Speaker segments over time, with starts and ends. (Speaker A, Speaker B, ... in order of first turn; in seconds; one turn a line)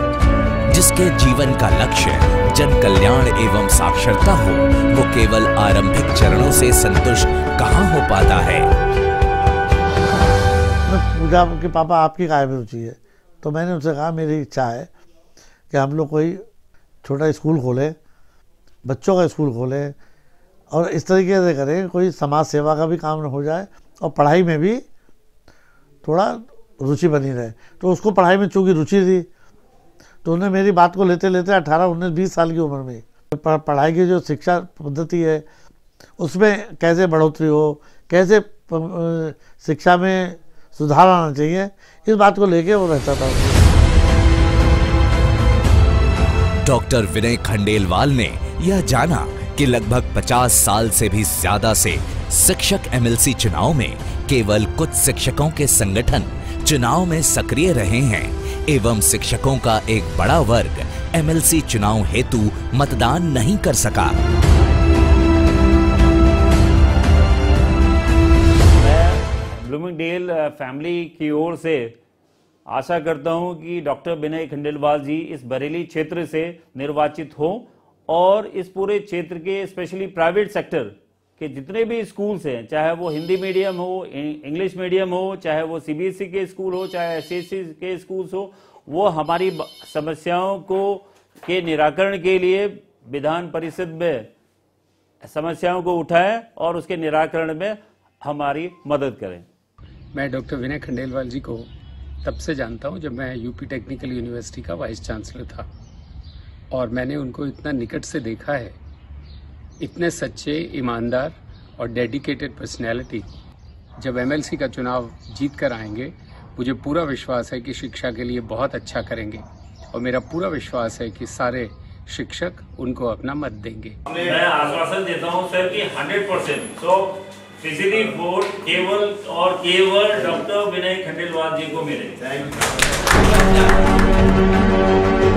Speaker A: 0.7-8.7
Speaker B: 10.8-14.9
Speaker B: 15.7-16.4
Speaker B: 17.0-17.9
Speaker B: 18.8-19.9
Speaker B: 20.7-24.8
Speaker B: 26.0-29.3
Speaker B: 30.2-35.4
Speaker B: 36.2-43.6
Speaker A: 46.6-64.2
Speaker C: 68.8-71.9
Speaker C: 72.7-94.3
Speaker C: 95.2-99.5
Speaker D: 100.1-101.7
Speaker D: 102.2-105.7
Speaker D: 106.7-108.8
Speaker D: 109.8-113.3
Speaker D: 114.0-124.0
Speaker C: 124.1-132.4